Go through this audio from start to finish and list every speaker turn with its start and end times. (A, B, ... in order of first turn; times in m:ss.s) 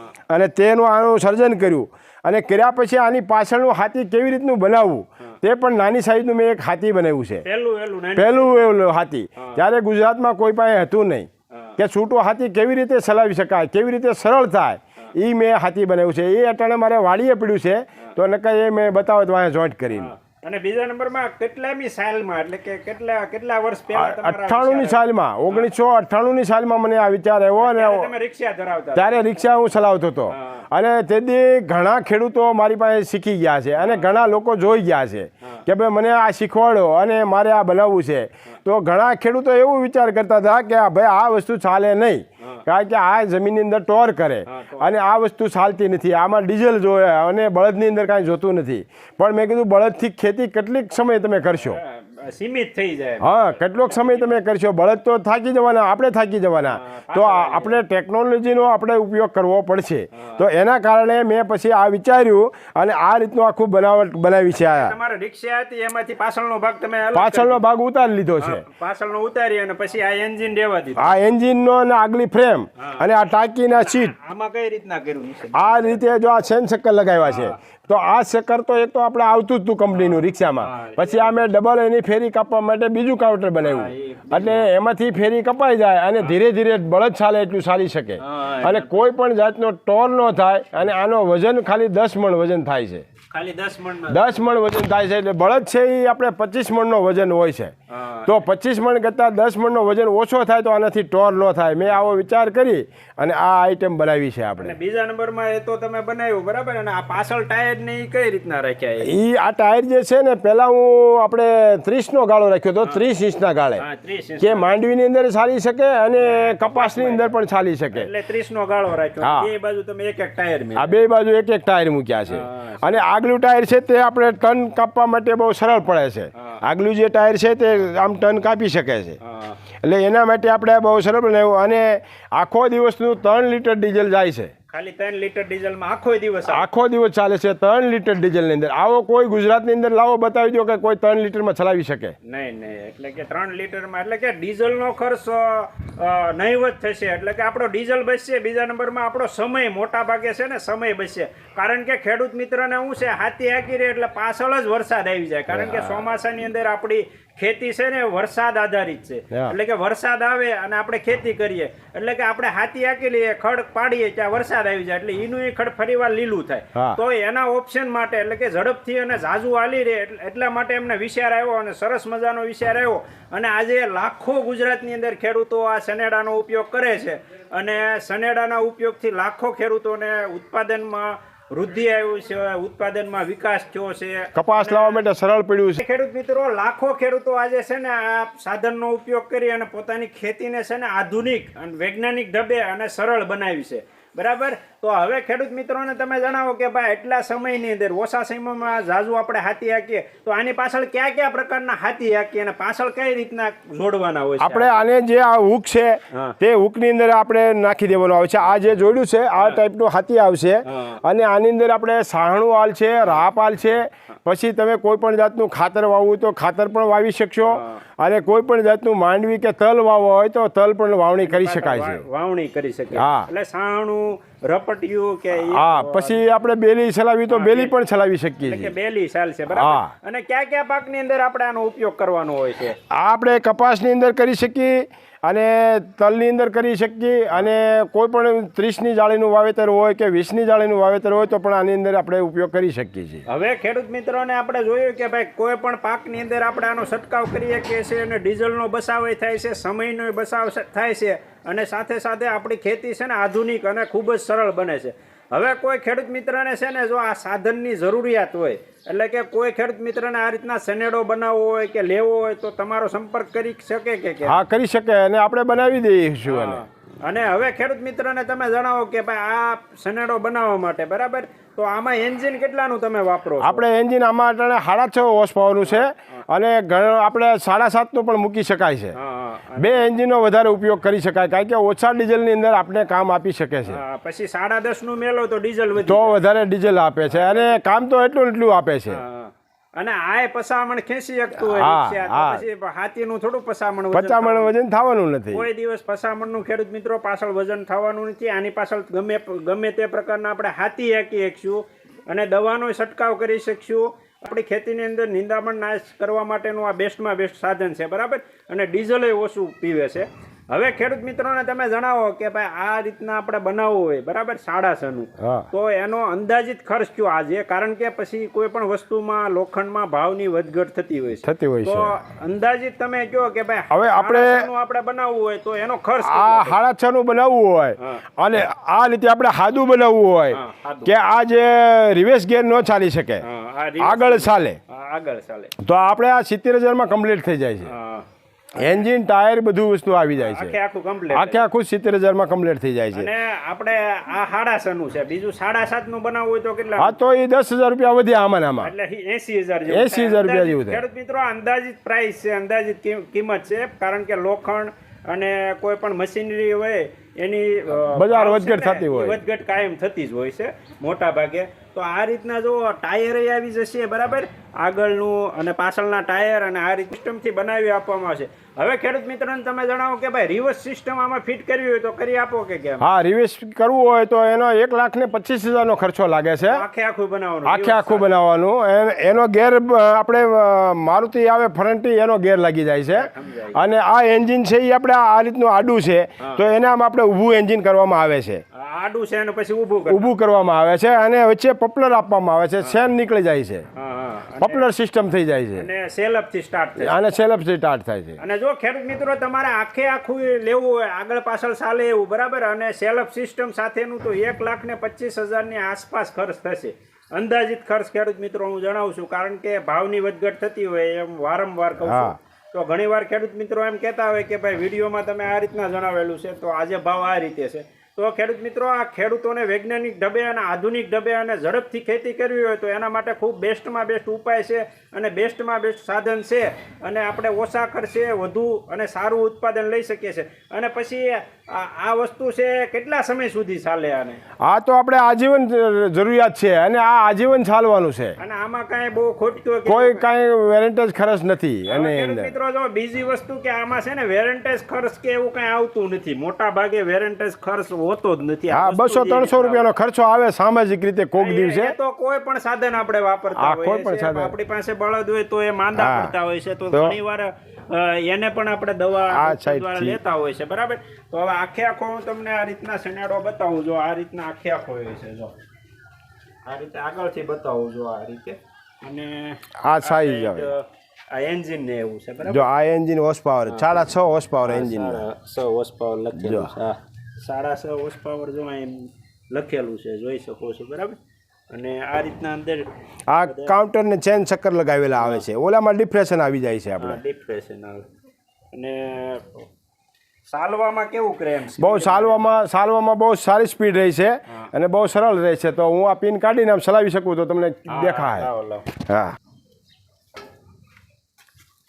0:00.3-0:07.4 A
0:07.4-0:08.7 B
0:08.2-0:20.1 A
0:19.9-0:25.7 B
0:23.9-0:28.1 A
0:27.6-0:29.3 B
0:29.0-0:51.8 A
0:30.3-0:30.6 B
0:33.8-0:34.1 B
0:44.5-0:45.0 B
0:51.6-0:54.4 B
0:53.2-1:04.9 A
0:56.6-0:57.8 B
1:00.1-1:00.4 B
1:04.5-1:07.6 B
1:07.1-1:08.6 A
1:08.4-1:11.1 B
1:11.0-1:14.1 A
1:12.8-1:13.1 B
1:13.7-1:16.0 B
1:15.6-1:33.0 A
1:17.2-1:17.6 B
1:19.9-1:21.4 B
1:23.6-1:24.7 B
1:28.2-1:29.1 B
1:33.3-1:34.4 B
1:34.1-1:37.7 A
1:37.9-1:38.4 B
1:38.2-1:44.8 A
1:44.6-1:49.2 B
1:49.0-1:53.8 A
1:53.8-1:54.8 B
1:54.4-1:58.1 A
1:56.2-1:57.4 B
1:57.9-2:01.0 B
1:59.2-1:59.5 A
2:00.8-2:09.2 A
2:02.3-2:03.0 B
2:09.2-2:09.6 B
2:09.8-2:14.5 A
2:14.7-2:16.7 B
2:16.4-2:22.2 A
2:22.2-3:05.1 B
2:35.5-2:36.1 A
3:04.4-3:05.8 A
3:05.8-3:24.8 B
3:24.4-3:42.0 A
3:30.6-3:31.0 B
3:37.5-3:37.8 B
3:41.2-3:46.2 B
3:42.9-3:43.3 A
3:45.4-3:48.7 A
3:47.3-3:47.8 B
3:48.4-3:52.8 B
3:49.5-3:49.9 A
3:52.9-4:03.2 A
4:03.3-4:24.4 B
4:24.3-4:26.6 A
4:26.3-4:33.7 B
4:33.4-4:39.0 A
4:35.6-4:35.9 B
4:38.9-4:39.9 B
4:39.6-4:43.8 A
4:43.7-4:46.2 B
4:45.8-4:49.0 A
4:47.1-4:47.6 B
4:48.9-4:54.5 B
4:51.4-4:52.4 A
4:53.9-4:55.4 A
4:55.3-5:26.6 B
5:15.2-5:15.5 A
5:21.2-5:22.0 A
5:23.7-5:24.5 A
5:26.0-5:33.2 A
5:30.3-5:30.9 B
5:33.2-5:35.5 B
5:33.8-5:34.6 A
5:35.6-5:37.7 A
5:37.6-5:38.9 B
5:38.6-5:40.6 A
5:40.2-5:41.4 B
5:41.1-5:43.1 A
5:42.9-5:47.0 B
5:46.8-5:48.7 A
5:48.6-6:12.9 B
5:49.7-5:50.8 A
5:57.9-5:59.2 A
6:12.8-6:16.6 A
6:16.5-6:18.1 B
6:17.5-6:28.4 A
6:22.9-6:23.6 B
6:28.6-6:30.1 B
6:29.9-6:33.7 A
6:33.8-6:34.7 B
6:34.4-6:35.7 A
6:35.6-6:37.1 B
6:36.8-6:38.2 A
6:38.2-7:14.2 B
6:51.8-6:52.2 A
7:14.4-7:18.2 A
7:18.2-7:20.0 B
7:19.7-7:22.3 A
7:21.7-7:29.7 B
7:28.5-7:31.8 A
7:31.2-7:45.4 B
7:33.4-7:34.3 A
7:35.8-7:36.1 A
7:39.1-7:40.0 A
7:46.5-7:52.5 B
7:49.6-7:50.5 A
7:52.3-7:55.0 A
7:53.5-7:53.9 B
7:54.4-8:01.0 B
7:56.1-7:56.5 A
8:01.5-8:02.7 B
8:03.1-8:07.0 A
8:03.2-8:03.6 B
8:05.0-8:05.2 B
8:06.8-8:07.9 B
8:08.5-8:09.4 B
8:10.3-8:12.3 B
8:11.6-8:19.2 A
8:17.7-8:18.7 B